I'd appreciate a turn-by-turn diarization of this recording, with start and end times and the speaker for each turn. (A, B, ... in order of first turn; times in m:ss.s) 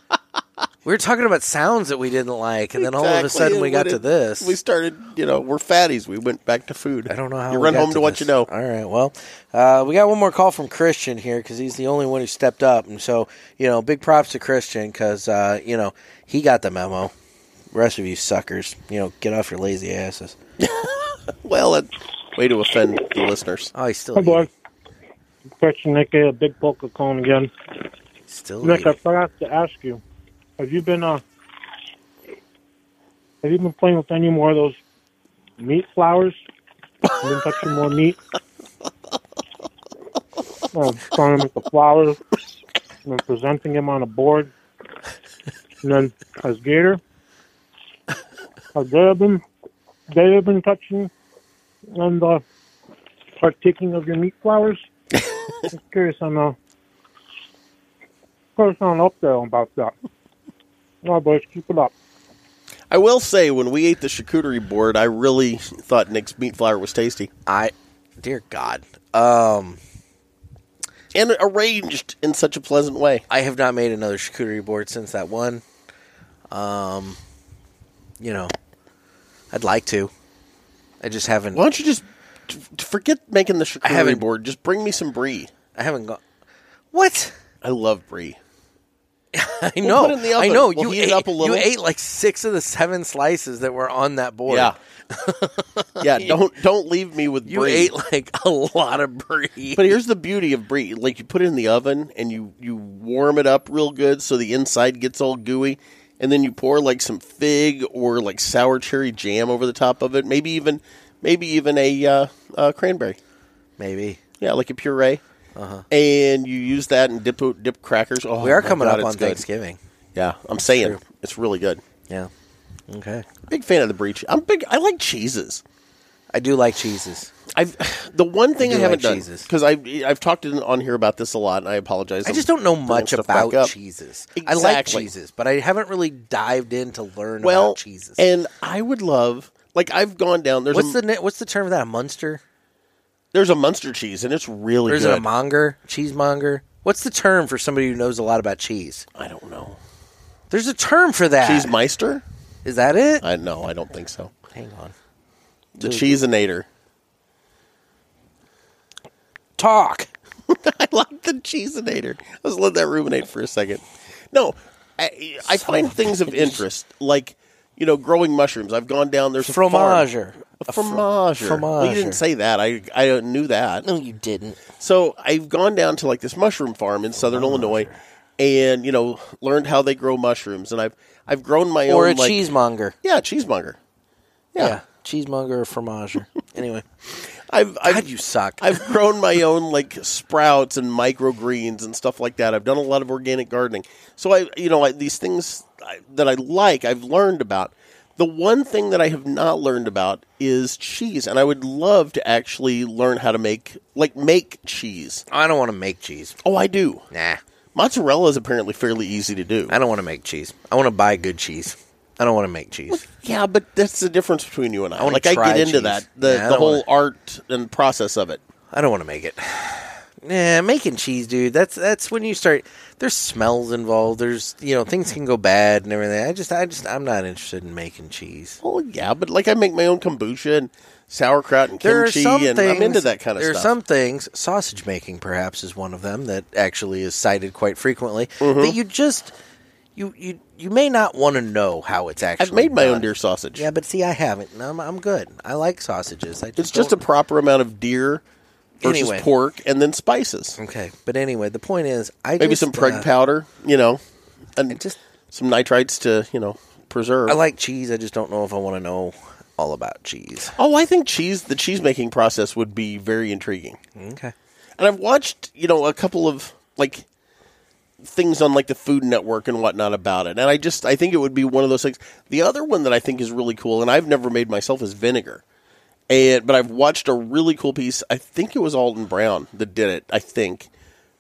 0:00.8-0:04.6 A
0:02.8-0:08.5 B
0:07.1-0:17.1 A
0:17.7-0:20.4 A
0:20.6-0:23.7 B
0:23.7-0:24.5 A
0:24.2-0:24.5 C
0:25.6-0:27.5 C
0:28.3-0:29.0 A
0:28.6-0:30.0 C
0:30.6-0:31.2 C
0:33.4-0:34.8 C
0:35.6-0:36.4 C
0:37.1-0:38.2 C
0:40.7-0:42.2 C
0:43.0-0:44.5 C
0:45.8-0:47.0 C
0:48.8-0:49.4 C
0:50.1-0:51.1 C
0:51.9-0:52.4 C
0:53.4-0:54.8 C
0:55.7-0:56.6 C
0:58.6-0:59.9 C
1:01.0-1:01.9 C
1:02.9-1:07.3 B
1:07.5-1:09.8 A
1:11.1-1:13.2 B
1:13.3-1:15.6 A
1:16.5-1:17.2 A
1:18.2-1:18.5 A
1:19.5-1:20.1 A
1:21.0-1:21.6 A
1:21.5-1:25.5 B
1:23.8-1:24.2 A
1:25.8-1:26.2 A
1:26.9-1:27.3 A
1:27.6-1:28.4 B
1:29.3-1:36.4 A
1:29.8-1:31.7 B
1:34.5-1:34.8 B
1:36.0-1:37.9 B
1:37.4-1:40.0 A
1:39.8-1:53.2 B
1:53.8-1:54.2 A
1:54.4-1:55.2 B
1:55.6-1:55.9 A
1:55.9-1:59.4 B
1:58.4-1:59.8 A
2:00.2-2:01.8 B
2:00.7-2:01.0 A
2:02.9-2:03.3 A
2:03.5-2:05.6 B
2:06.3-2:07.3 A
2:07.5-2:13.7 B
2:08.6-2:09.5 A
2:12.2-2:18.2 A
2:14.4-2:15.1 B
2:17.4-2:21.0 B
2:20.7-2:22.4 A
2:23.3-2:25.3 B
2:24.9-2:29.0 A
2:29.2-2:29.8 B
2:30.5-2:31.8 A
2:31.4-2:32.2 B
2:32.6-2:33.2 A
2:33.2-2:34.3 B
2:34.5-2:34.9 A
2:35.8-2:36.7 B
2:35.8-2:36.2 A
2:39.6-2:40.1 A
2:40.5-2:50.1 B
2:45.5-2:46.6 A
2:49.4-2:52.2 A
2:50.6-2:53.8 B
2:53.8-2:54.6 A
2:54.8-3:02.4 B
2:57.2-2:58.0 A
3:01.9-3:03.0 A
3:03.0-3:03.8 B
3:04.5-3:04.8 B
3:04.6-3:06.8 A
3:07.5-3:08.1 B
3:07.8-3:08.9 A
3:08.6-3:25.2 B
3:25.3-3:26.4 A
3:26.4-3:27.1 B
3:27.1-3:27.4 A
3:27.8-3:29.8 B
3:29.7-3:33.0 A
3:32.9-3:38.4 B
3:35.0-3:36.8 A
3:38.7-3:48.6 A
3:48.6-3:53.7 B
3:51.8-3:59.3 A
3:58.4-3:58.8 B
4:00.0-4:07.0 A
4:02.4-4:03.7 B
4:06.6-4:08.2 B
4:08.8-4:10.6 B
4:08.8-4:09.3 A
4:10.6-4:13.1 A
4:12.4-4:14.0 B
4:14.7-4:15.0 A
4:15.3-4:17.4 B
4:17.3-4:20.6 A
4:20.6-4:23.8 B
4:24.0-4:24.3 A
4:24.8-4:27.1 B
4:28.0-4:35.4 B
4:36.1-4:40.7 B